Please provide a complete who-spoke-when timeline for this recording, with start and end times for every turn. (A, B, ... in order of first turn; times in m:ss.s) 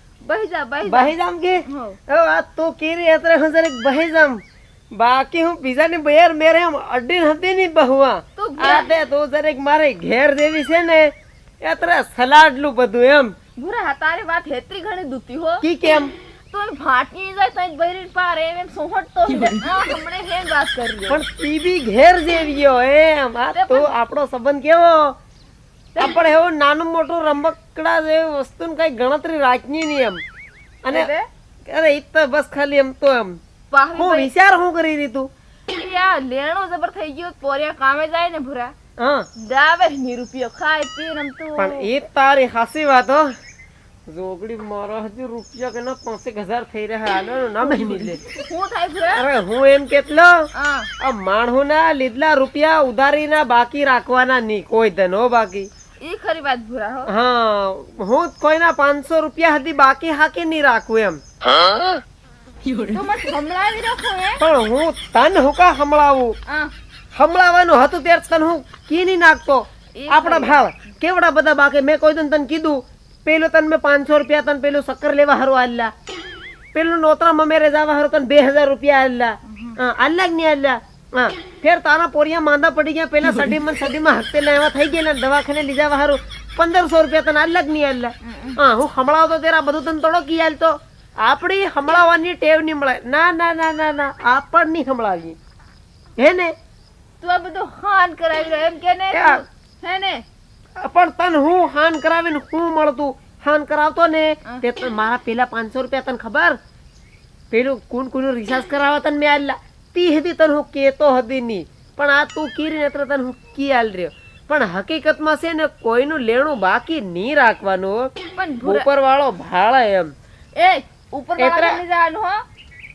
0:00.2-0:01.1 A
0:00.9-0:04.4 B
0:01.6-0:02.0 A
0:04.9-0:13.4 B
0:08.4-0:08.9 A
0:13.6-0:15.6 A
0:15.6-0:16.1 B
0:16.5-0:21.2 A
0:21.1-0:25.2 B
0:23.5-0:23.9 A
0:25.9-0:26.3 A
0:26.0-0:30.2 B
0:30.8-0:31.1 B
0:30.9-0:31.3 A
0:31.7-0:33.4 B
0:33.7-0:34.3 A
0:34.0-0:35.3 B
0:35.8-0:38.7 A
0:39.0-0:39.3 B
0:39.4-0:41.9 A
0:41.6-0:43.3 B
0:44.1-0:48.2 B
0:48.3-0:49.2 A
0:49.1-0:50.5 B
0:50.6-0:50.9 A
0:51.0-0:55.7 B
0:56.0-0:57.1 A
0:57.1-1:01.2 B
1:02.8-1:04.4 A
1:04.4-1:06.4 B
1:07.2-1:15.9 B
1:10.0-1:10.6 A
1:16.7-1:35.4 B
1:19.5-1:19.8 A
1:28.2-1:28.6 A
1:36.2-1:36.5 B
1:37.2-1:40.2 A
1:39.1-1:39.4 B
1:40.8-1:46.6 B
1:47.5-1:58.1 B
1:58.4-1:58.9 A
1:58.6-2:00.1 B
2:00.6-2:02.4 A
2:01.4-2:01.8 B